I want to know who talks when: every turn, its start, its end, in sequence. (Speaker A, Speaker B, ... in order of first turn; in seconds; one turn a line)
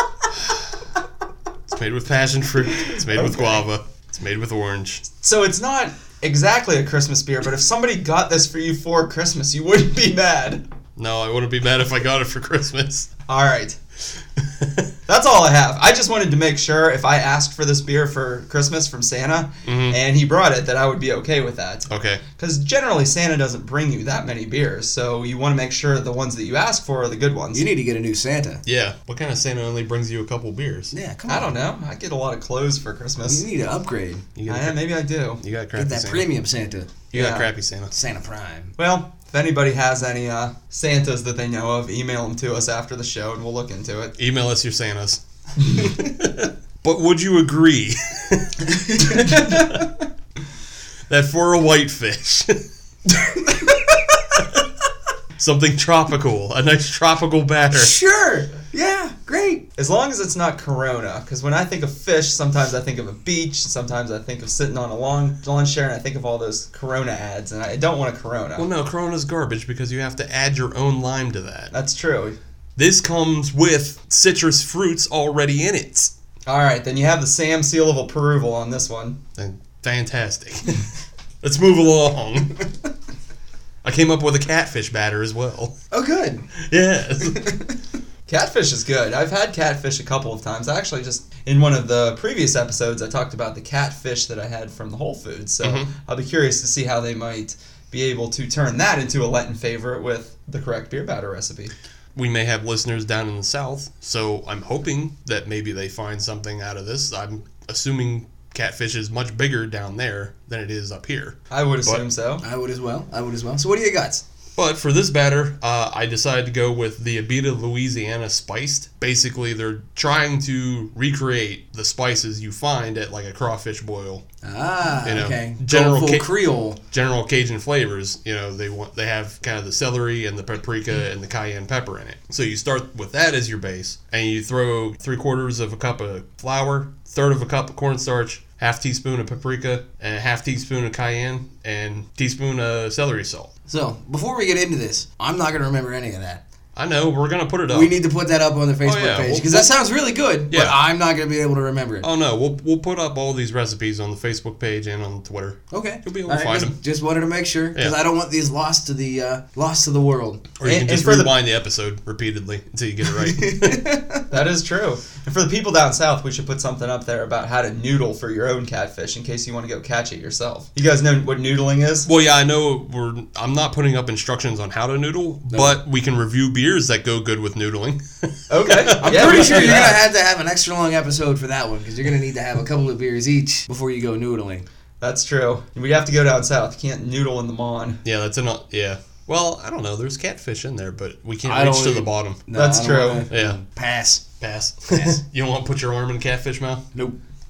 Speaker A: 1.7-5.1
Speaker B: 3.1-3.6
Speaker B: 5.2-10.6
Speaker A: 11.0-13.1
Speaker B: 13.3-13.8
Speaker A: 14.4-14.9
Speaker B: 15.1-27.6
Speaker A: 19.6-20.0
Speaker A: 21.9-22.2
Speaker C: 27.5-28.6
Speaker A: 28.6-30.9
Speaker C: 30.9-31.6
Speaker B: 31.3-33.5
Speaker C: 33.2-34.2
Speaker A: 34.4-36.3
Speaker B: 34.5-35.4
Speaker C: 35.7-36.9
Speaker A: 37.1-37.9
Speaker B: 37.1-37.5
Speaker C: 37.9-38.7
Speaker B: 38.8-44.1
Speaker A: 44.2-49.9
Speaker C: 48.7-49.9
Speaker A: 51.1-52.6
Speaker C: 53.5-53.9
Speaker A: 55.4-57.9
Speaker C: 57.7-59.6
Speaker B: 59.8-68.7
Speaker A: 68.6-71.7
Speaker B: 71.7-72.4
Speaker A: 72.8-76.1
Speaker B: 76.5-79.2
Speaker A: 79.4-80.9
Speaker A: 81.4-82.7
Speaker A: 83.8-85.7
Speaker C: 85.9-86.5
Speaker A: 86.6-87.5
Speaker C: 87.2-87.7
Speaker B: 88.3-101.7
Speaker A: 95.6-95.9
Speaker A: 102.1-112.0
Speaker B: 111.5-112.4
Speaker C: 112.4-114.2
Speaker A: 114.5-124.2
Speaker C: 124.4-126.8
Speaker A: 125.0-126.3
Speaker A: 126.9-143.5
Speaker C: 143.7-146.4
Speaker A: 146.8-148.0
Speaker C: 147.7-152.1
Speaker A: 148.8-149.7
Speaker A: 150.5-150.8
Speaker A: 152.0-156.8
Speaker C: 155.7-160.5
Speaker A: 160.6-163.8
Speaker B: 160.6-161.3
Speaker C: 163.1-164.2
Speaker B: 164.3-172.1
Speaker A: 172.1-179.9
Speaker C: 175.5-175.8
Speaker B: 178.5-180.0
Speaker C: 179.0-184.7
Speaker B: 185.0-188.0
Speaker A: 188.1-192.4
Speaker C: 191.4-194.2
Speaker B: 192.5-193.3
Speaker A: 193.3-193.6
Speaker A: 194.4-196.9
Speaker C: 194.9-195.2